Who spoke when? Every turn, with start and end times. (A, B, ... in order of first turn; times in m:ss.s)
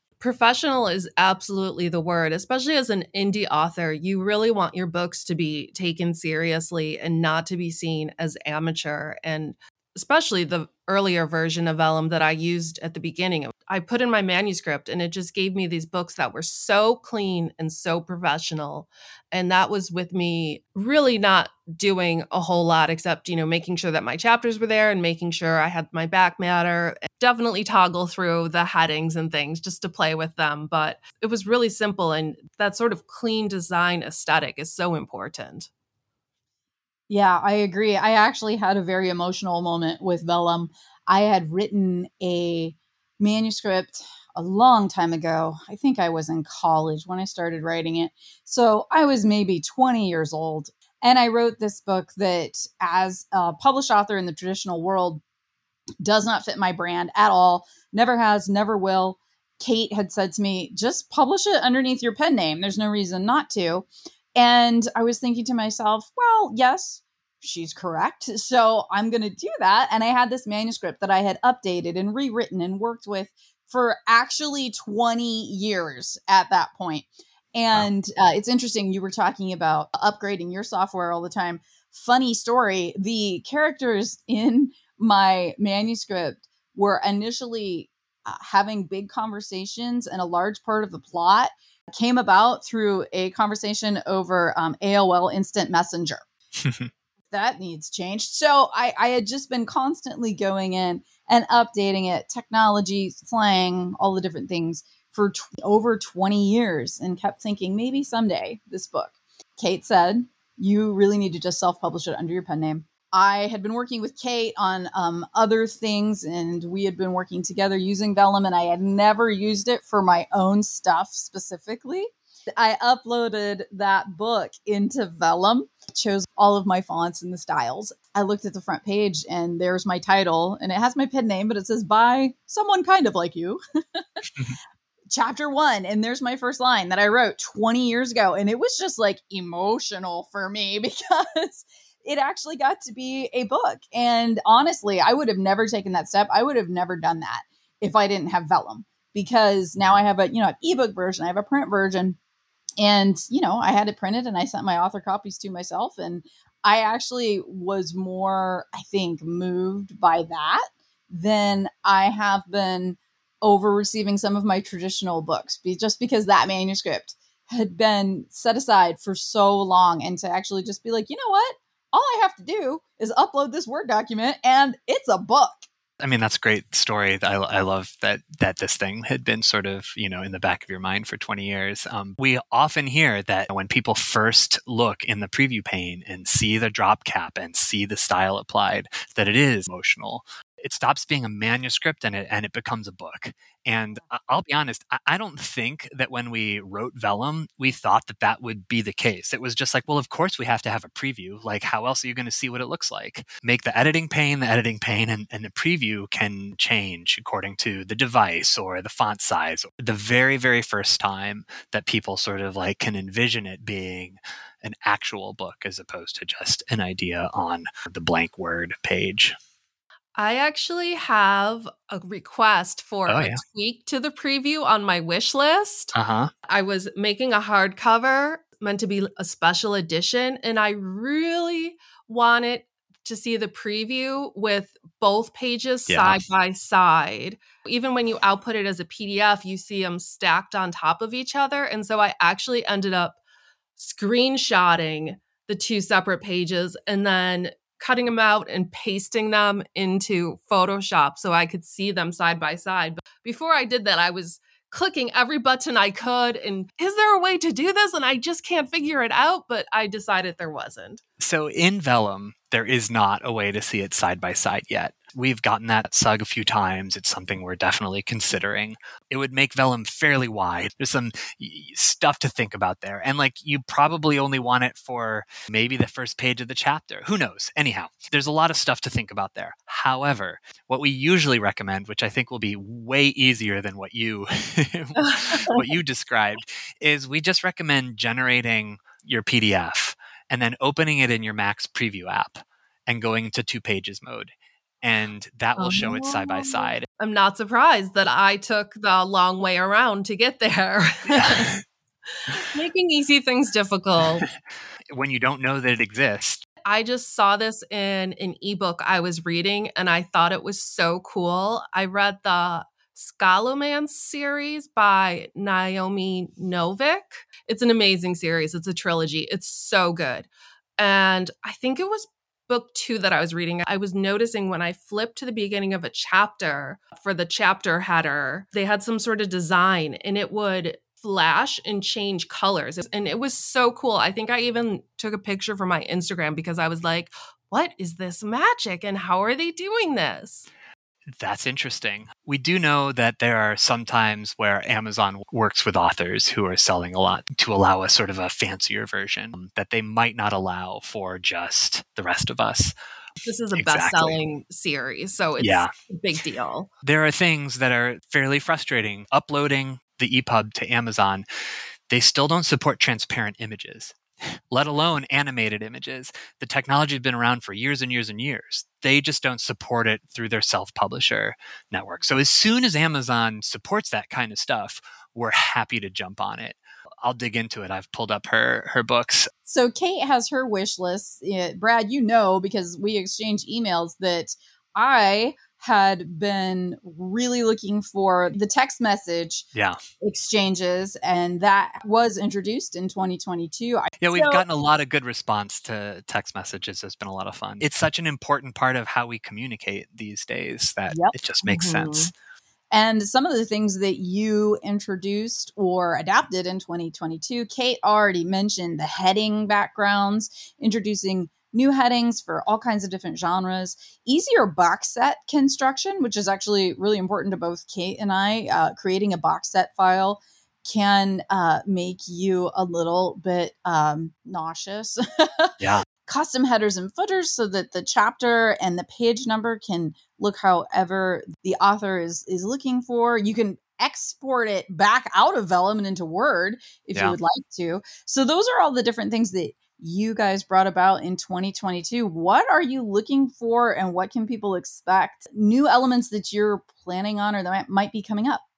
0:00.2-0:35.7 A
0:37.1-0:55.2 B
0:56.0-1:36.2 B
1:36.6-1:36.9 C
1:37.3-2:14.0 B
2:15.1-2:32.2 B
2:32.8-2:55.7 B
2:56.0-3:39.4 C
3:40.2-3:45.9 A
3:43.1-3:43.4 C
3:45.9-3:46.3 C
3:46.5-4:03.2 A
3:55.9-3:56.2 C
4:03.8-4:21.0 A
4:21.2-4:56.9 C
4:45.0-4:45.6 A
4:55.6-5:01.6 A
5:01.1-5:01.6 C
5:02.1-5:04.3 A
5:04.9-5:06.4 C
5:06.6-5:40.5 A
5:41.1-5:52.7 C
5:53.2-5:56.7 A
5:53.5-5:54.2 C
5:55.4-5:55.7 C
5:56.8-6:01.2 C
6:01.9-6:04.0 C
6:04.5-6:19.3 C
6:19.5-6:29.5 B
6:30.0-6:34.4 B
6:34.0-6:42.1 C
6:40.9-6:42.1 B
6:42.7-7:28.4 B
7:05.6-7:05.8 C